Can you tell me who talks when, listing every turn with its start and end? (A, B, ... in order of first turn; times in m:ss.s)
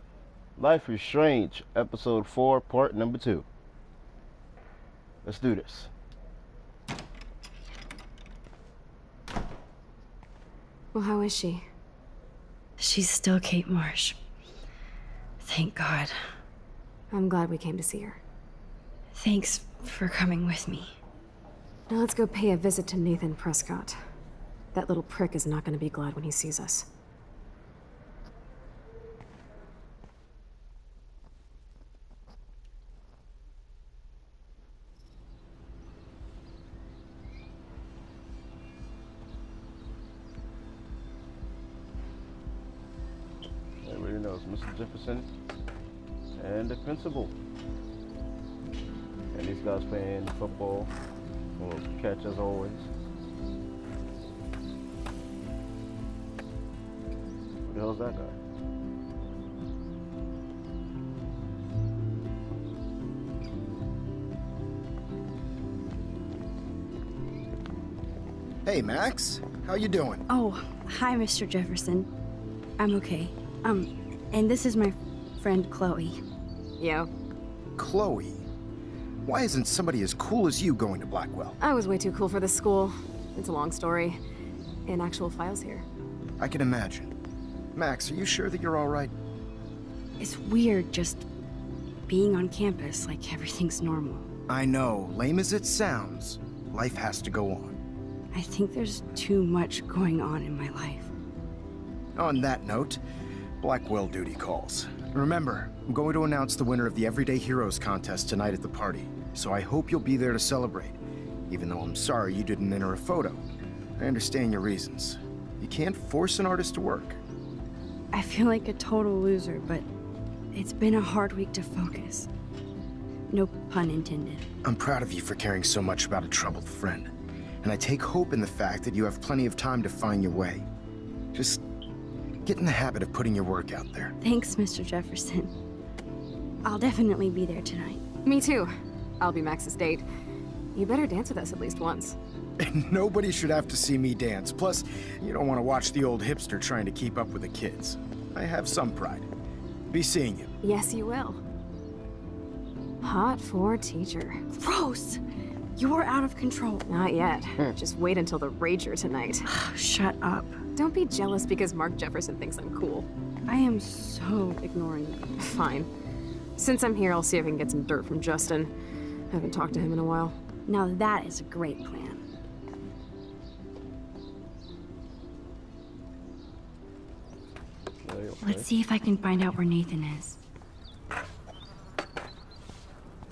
0:00.6-0:03.4 A
0:05.2-0:05.9 A
0:10.9-0:11.6 B
0:12.8-0:14.2 C
0:15.4-0:16.2 C
0:17.1-0:18.2 B
0:19.2-0:21.0 C
0:21.9-0:24.0 B
0:24.7-0:26.9 B
0:43.8-0:45.3 A
0:46.4-0:47.3 A
0:49.3-0:50.9 A
0:51.6-0:52.9 A
0:57.6-0:58.4 A
1:08.6-1:10.2 D
1:10.3-1:12.1 C
1:12.8-1:16.2 C
1:16.8-1:17.1 B
1:17.8-1:18.5 D
1:19.2-1:21.6 D
1:21.6-1:24.2 B
1:24.9-1:25.8 B
1:26.4-1:27.1 D
1:27.7-1:29.1 D
1:30.2-1:31.3 C
1:32.1-1:34.3 C
1:34.5-1:37.8 D
1:38.3-1:41.1 C
1:42.2-1:43.0 D
1:43.6-1:53.4 D
1:54.0-1:57.2 D
1:58.1-1:59.9 C
2:00.5-2:02.3 C
2:03.3-2:04.5 C
2:04.6-2:07.1 D
2:07.6-2:10.7 D
2:11.3-2:11.6 D
2:12.4-2:14.1 D
2:14.2-2:15.5 C
2:16.6-2:18.0 C
2:18.2-2:20.0 B
2:20.7-2:22.2 B
2:22.6-2:29.3 D
2:29.9-2:30.5 D
2:30.6-2:31.4 B
2:33.0-2:34.4 B
2:34.5-2:35.2 C
2:35.8-2:36.9 C
2:36.9-2:39.5 B
2:39.4-2:40.6 C
2:40.8-2:43.1 B
2:43.5-2:45.4 C
2:45.4-2:45.9 B
2:46.6-2:48.7 B
2:49.3-2:50.4 B
2:50.7-2:52.2 C
2:58.0-2:58.7 A
2:58.4-3:00.4 C